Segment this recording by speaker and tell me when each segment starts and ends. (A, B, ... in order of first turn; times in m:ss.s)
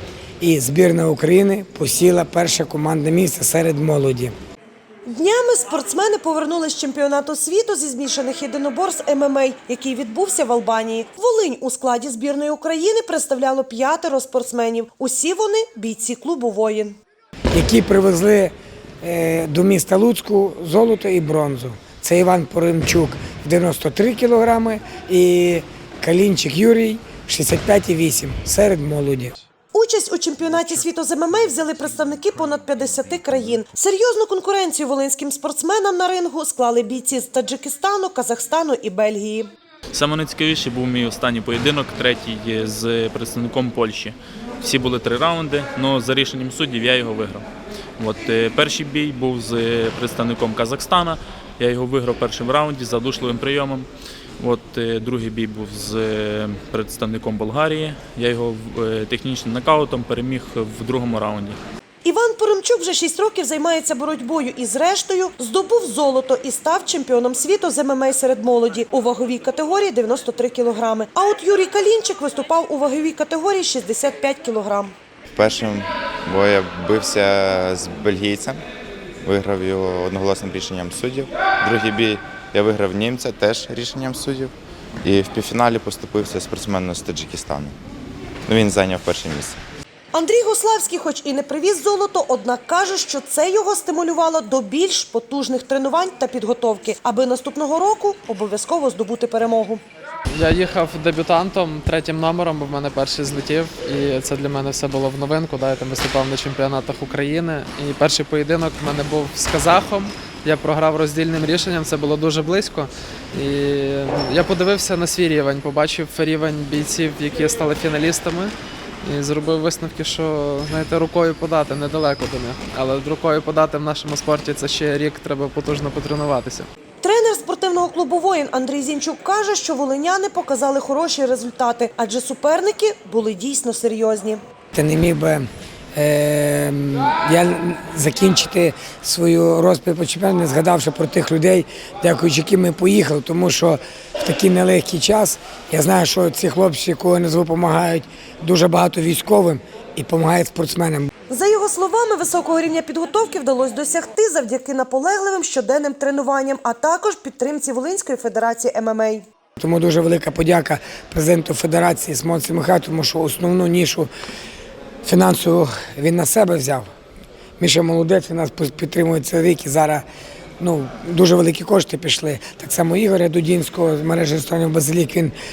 0:00.4-0:04.3 A
0:05.0-0:17.0 B
0:17.5-0:29.3 A
0:29.7-0:39.5 B
0:39.9-0:47.4 C
0:48.0-0:53.9 C
0:54.4-1:01.6 C
1:02.0-1:14.9 B
1:15.4-1:18.6 D
1:19.2-1:27.7 D
1:28.5-1:29.6 D
1:30.1-1:39.8 B
1:40.4-2:06.7 E
2:07.0-2:14.4 B
2:14.7-2:31.1 A
2:31.3-2:39.2 B
2:39.6-2:44.1 A
2:45.0-2:46.8 A
2:47.6-2:50.0 A
2:50.6-2:55.3 A